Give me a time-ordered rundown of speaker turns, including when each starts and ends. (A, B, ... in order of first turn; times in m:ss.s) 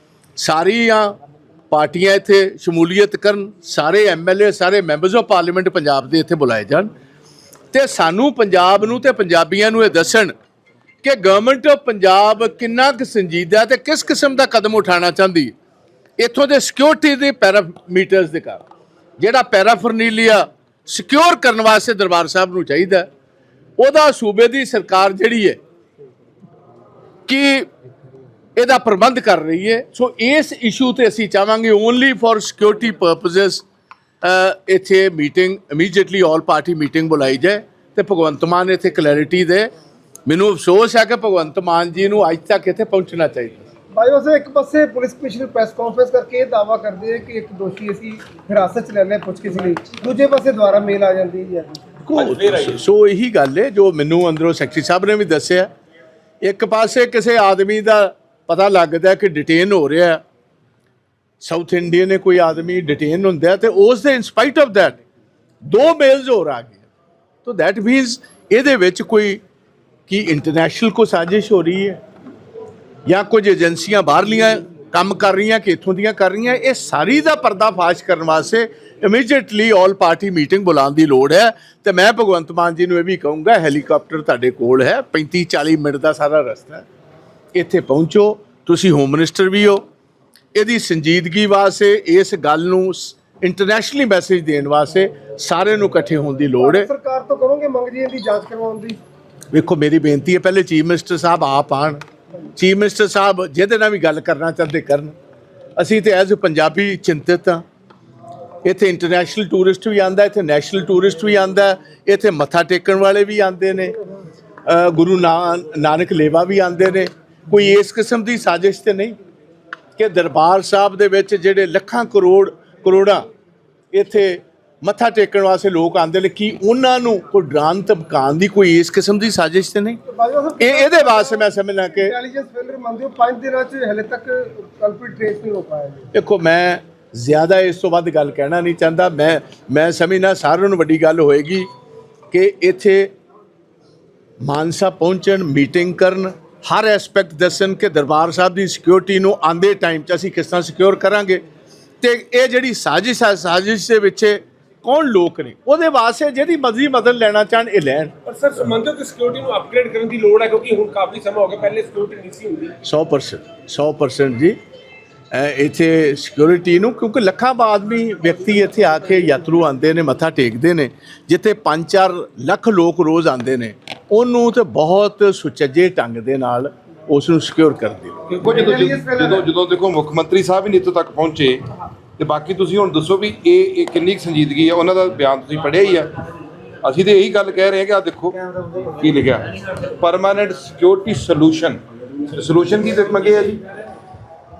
0:00.4-0:01.2 A
0:01.7-0:06.9 A
0:07.7-0:10.3 A
0:11.0-0:15.5 A
0:16.2-0:18.6 A
0:19.2-0:23.1 A
0:23.8-0:25.6 A
0:27.3-0:27.7 A
0:28.6-0:33.6 A
0:34.2-0:39.7 A
0:40.3-0:43.7 A
0:43.9-0:52.0 B
0:52.1-0:55.7 A
0:52.1-0:52.8 C
0:56.4-1:00.2 A
1:01.4-1:05.0 A
1:05.6-1:06.8 A
1:07.4-1:09.4 A
1:10.1-1:12.0 A
1:13.1-1:26.8 A
1:27.5-1:29.8 A
1:30.6-1:36.9 A
1:36.5-1:39.0 B
1:39.5-1:42.0 A
1:42.6-1:45.2 A
1:45.8-1:47.6 A
1:48.6-1:54.0 A
1:54.7-1:59.2 A
2:00.0-2:03.3 A
2:03.9-2:10.0 A
2:10.1-2:16.1 B
2:10.6-2:12.2 A
2:16.1-2:21.7 A
2:22.3-2:23.1 A
2:24.4-2:31.4 A
2:32.0-2:38.1 A
2:38.2-2:42.8 C
2:42.8-2:44.6 A
2:45.3-2:58.2 A
2:58.3-3:01.7 D
2:58.5-2:59.5 B
3:02.2-3:06.2 D
3:06.8-3:08.4 D
3:08.4-3:08.9 B
3:09.0-3:13.6 D